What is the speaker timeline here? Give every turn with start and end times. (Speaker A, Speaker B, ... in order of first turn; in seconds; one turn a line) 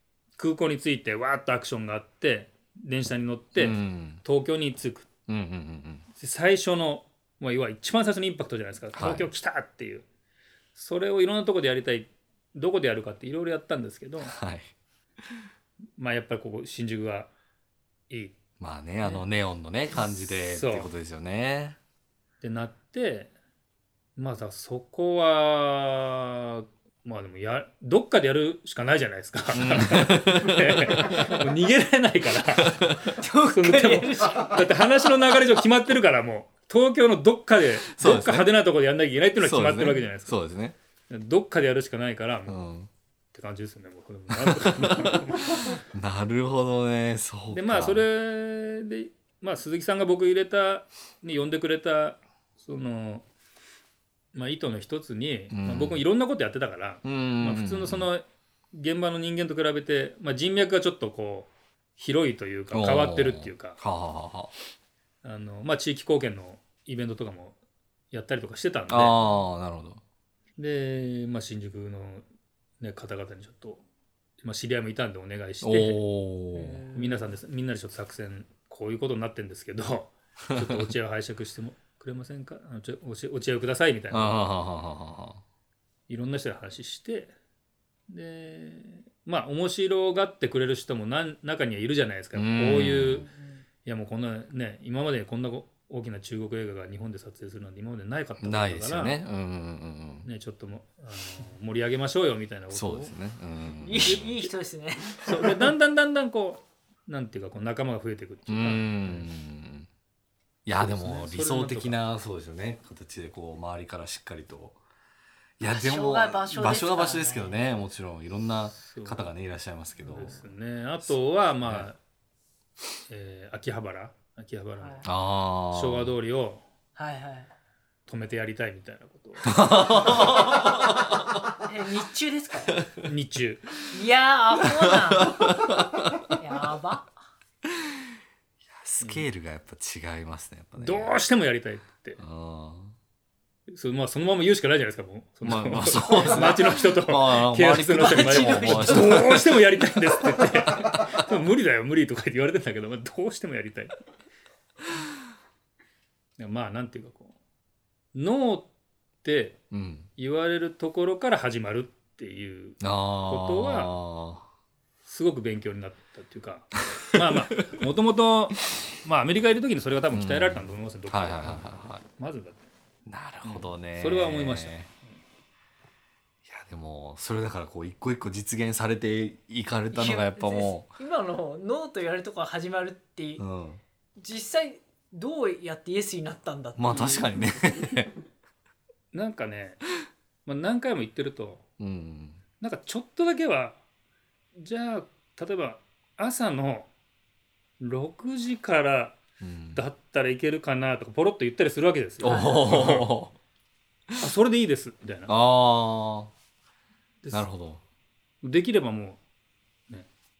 Speaker A: 0.4-5.1
Speaker B: 3.5-4.2
Speaker B: 5.3-6.0
Speaker A: 6.2-10.0
Speaker B: 8.9-9.3
Speaker A: 10.7-14.3
Speaker B: 14.2-14.7
Speaker A: 16.0-17.3
Speaker A: 18.1-18.4
Speaker B: 18.6-21.8
Speaker A: 20.4-20.9
Speaker A: 22.4-23.3
Speaker A: 24.2-33.0
Speaker B: 29.5-31.4
Speaker B: 32.6-33.1
Speaker C: 33.1-34.6
Speaker A: 33.5-40.4
Speaker B: 37.9-38.5
Speaker B: 39.4-40.7
Speaker A: 41.1-42.7
Speaker B: 42.5-42.9
Speaker A: 43.3-45.8
Speaker B: 44.3-48.0
Speaker A: 47.5-53.2
Speaker A: 54.3-63.8
Speaker B: 55.5-56.0
Speaker B: 57.0-58.1
Speaker B: 62.7-64.5
Speaker A: 65.2-67.6
Speaker A: 68.1-69.2
Speaker B: 68.9-70.0
Speaker A: 70.6-72.2
Speaker A: 72.8-73.8
Speaker A: 74.4-76.0
Speaker B: 75.6-76.8
Speaker C: 76.5-77.3
Speaker A: 76.9-84.4
Speaker B: 80.5-80.9
Speaker B: 84.1-85.4
Speaker A: 86.1-87.3
Speaker A: 88.1-93.3
Speaker B: 92.3-93.3
Speaker C: 93.3-93.6
Speaker A: 93.8-99.2
Speaker B: 98.4-100.3
Speaker A: 100.2-103.1
Speaker B: 102.7-104.3
Speaker C: 103.8-105.5
Speaker A: 104.0-104.5
Speaker A: 105.2-109.3
Speaker B: 108.5-109.9
Speaker B: 110.7-114.8
Speaker A: 110.8-112.0
Speaker B: 115.6-120.3
Speaker C: 115.6-117.6
Speaker A: 118.8-119.3
Speaker C: 120.0-120.4
Speaker A: 120.1-122.0
Speaker B: 121.6-121.9
Speaker A: 123.1-125.2
Speaker B: 125.0-126.1
Speaker A: 125.7-126.6
Speaker C: 127.0-127.5
Speaker A: 128.1-129.6
Speaker B: 129.4-131.2
Speaker C: 131.6-132.8
Speaker A: 133.0-133.7
Speaker C: 133.9-135.5
Speaker B: 134.6-136.3
Speaker C: 136.4-137.1
Speaker B: 137.7-138.0
Speaker B: 138.7-141.1
Speaker A: 139.0-139.2
Speaker A: 140.8-142.2
Speaker B: 142.2-142.9
Speaker A: 143.7-153.9
Speaker B: 145.4-149.6
Speaker C: 147.9-149.4
Speaker A: 156.4-157.3
Speaker A: 158.1-158.7
Speaker A: 159.2-159.6
Speaker B: 159.7-160.1
Speaker A: 160.2-163.9
Speaker B: 162.8-164.4
Speaker A: 165.1-172.6
Speaker B: 166.9-167.7
Speaker B: 170.1-172.0
Speaker B: 173.1-174.9
Speaker A: 173.4-174.9
Speaker B: 176.4-180.9
Speaker C: 179.9-183.4
Speaker B: 183.4-183.8
Speaker C: 184.2-187.3
Speaker B: 186.8-188.1
Speaker A: 189.1-189.8
Speaker A: 190.4-191.6
Speaker B: 191.8-192.4
Speaker A: 192.6-193.8
Speaker A: 194.5-196.9
Speaker A: 197.8-199.2
Speaker B: 199.4-199.8
Speaker A: 199.7-203.1
Speaker B: 202.2-203.3
Speaker A: 204.2-205.3
Speaker B: 205.3-206.3
Speaker A: 207.2-207.5
Speaker B: 207.3-207.8
Speaker A: 208.4-209.2